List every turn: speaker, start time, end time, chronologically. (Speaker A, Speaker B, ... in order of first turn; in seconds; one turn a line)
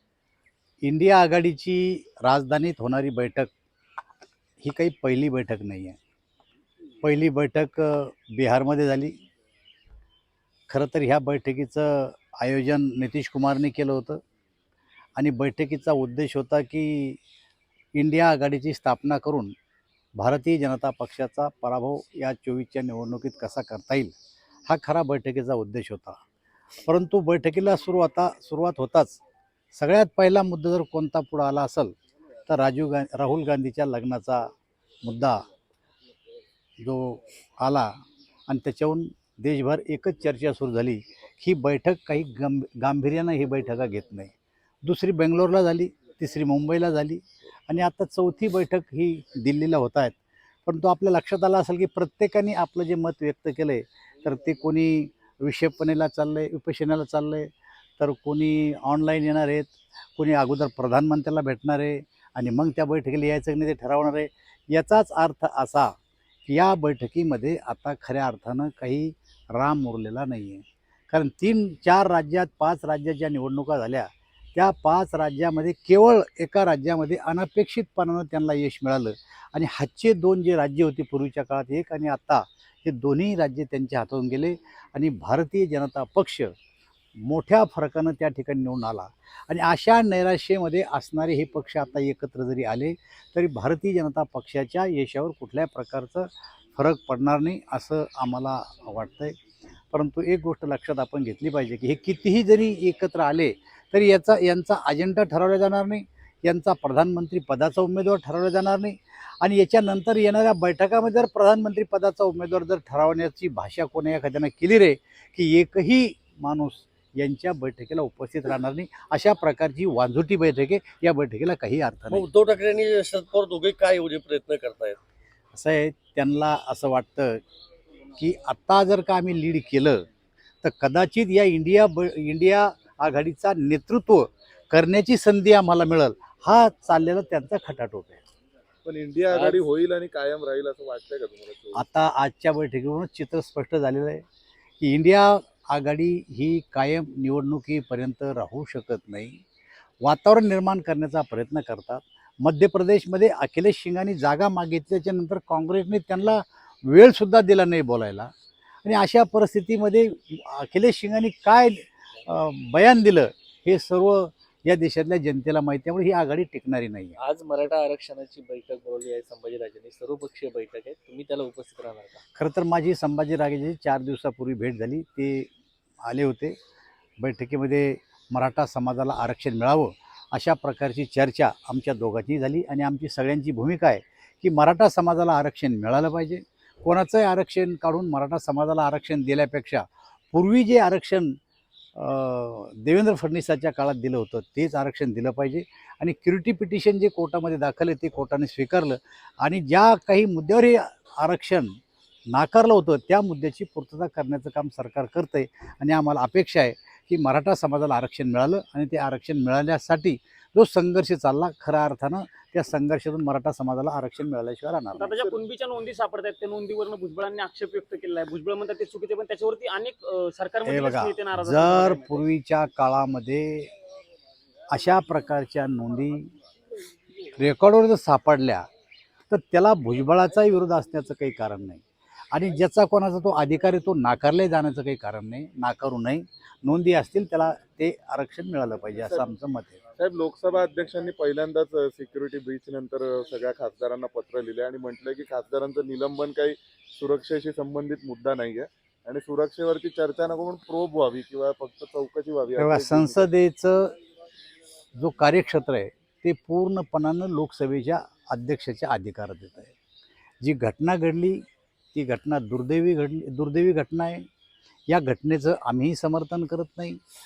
Speaker A: 0.8-3.5
Speaker A: 4.6-6.0
Speaker A: 7.0-9.2
Speaker A: 10.7-14.2
Speaker A: 15.2-17.2
Speaker A: 18.0-19.5
Speaker A: 20.2-24.1
Speaker A: 24.7-26.2
Speaker A: 26.9-29.2
Speaker A: 29.7-31.9
Speaker A: 32.5-34.5
Speaker A: 35.0-35.5
Speaker A: 36.8-38.0
Speaker A: 38.5-65.9
Speaker A: 66.5-86.5
Speaker A: 87.2-99.3
Speaker A: 99.9-122.3
Speaker B: 122.1-125.0
Speaker A: 125.5-127.4
Speaker A: 128.2-130.1
Speaker A: 130.6-138.2
Speaker C: 138.8-141.8
Speaker D: 139.3-139.6
Speaker A: 141.7-144.2
Speaker A: 144.8-149.4
Speaker A: 150.0-158.3
Speaker A: 158.8-167.2
Speaker D: 167.2-172.2
Speaker A: 172.4-175.5
Speaker A: 176.0-176.6
Speaker A: 177.2-191.4
Speaker A: 191.9-201.8
Speaker A: 202.3-215.1
Speaker E: 215.0-222.2
Speaker A: 220.7-223.7
Speaker A: 224.7-226.3
Speaker A: 227.4-228.7
Speaker A: 229.3-231.8
Speaker A: 232.3-239.8
Speaker C: 240.0-253.3
Speaker A: 252.6-254.0
Speaker A: 255.0-259.7
Speaker A: 260.4-264.3
Speaker A: 264.9-267.0